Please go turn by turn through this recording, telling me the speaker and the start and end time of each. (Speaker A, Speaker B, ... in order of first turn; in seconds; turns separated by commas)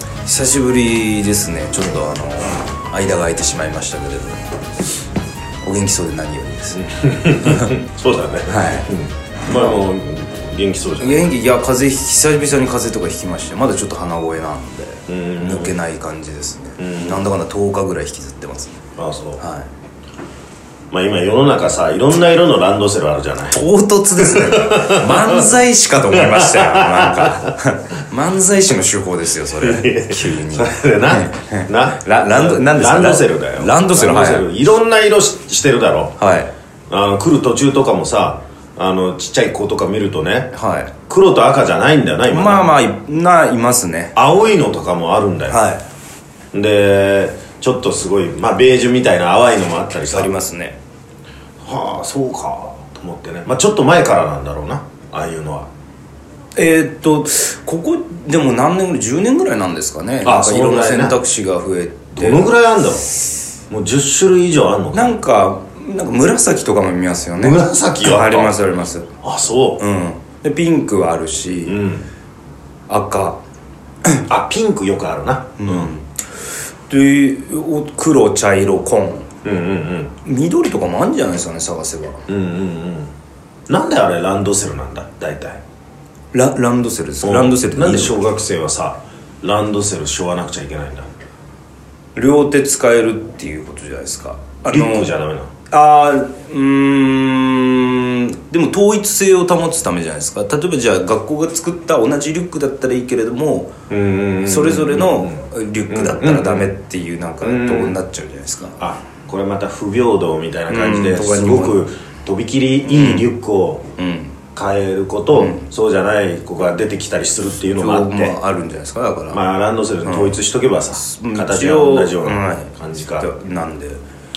Speaker A: 0.2-4.5, Speaker A: 5.6-6.8, Speaker B: 6.7-11.3, Speaker A: 7.4-7.7, Speaker A: 8.5-8.9, Speaker A: 9.5-9.8, Speaker A: 11.0-18.8, Speaker B: 15.1-15.8, Speaker B: 16.8-17.3, Speaker B: 19.0-19.4, Speaker A: 19.4-19.7, Speaker B: 20.9-23.6, Speaker A: 23.5-34.5, Speaker B: 24.2-25.5, Speaker B: 26.1-27.5, Speaker B: 29.6-36.2, Speaker A: 36.2-36.5, Speaker B: 36.9-40.5, Speaker A: 40.5-40.9, Speaker B: 41.1-42.8, Speaker A: 42.3-44.1, Speaker B: 44.1-45.6, Speaker A: 45.5-45.8, Speaker B: 46.5-50.4, Speaker A: 50.1-50.8, Speaker B: 51.6-55.7, Speaker A: 56.5-62.5, Speaker B: 60.2-61.2, Speaker B: 62.1-63.1, Speaker B: 63.7-65.2, Speaker A: 64.9-69.1, Speaker B: 67.4-68.5, Speaker B: 69.2-69.8, Speaker A: 69.8-71.8, Speaker B: 71.6-72.1, Speaker A: 72.9-73.4, Speaker B: 74.2-75.9, Speaker A: 75.6-76.1, Speaker A: 76.9-79.3, Speaker B: 79.4-80.1, Speaker A: 80.2-82.2, Speaker B: 82.3-83.1, Speaker B: 83.7-85.6, Speaker A: 86.3-88.2, Speaker B: 87.2-91.1, Speaker A: 92.2-95.1, Speaker B: 94.7-95.5, Speaker A: 95.7-103.7, Speaker B: 103.9-106.7, Speaker A: 104.4-108.8, Speaker B: 107.4-108.0, Speaker B: 108.8-113.9, Speaker A: 110.7-111.8, Speaker A: 112.8-113.3, Speaker A: 114.0-114.3, Speaker B: 114.5-118.4, Speaker A: 115.3-115.7, Speaker A: 117.7-119.4, Speaker B: 119.3-123.3, Speaker A: 120.0-120.4, Speaker A: 120.9-124.0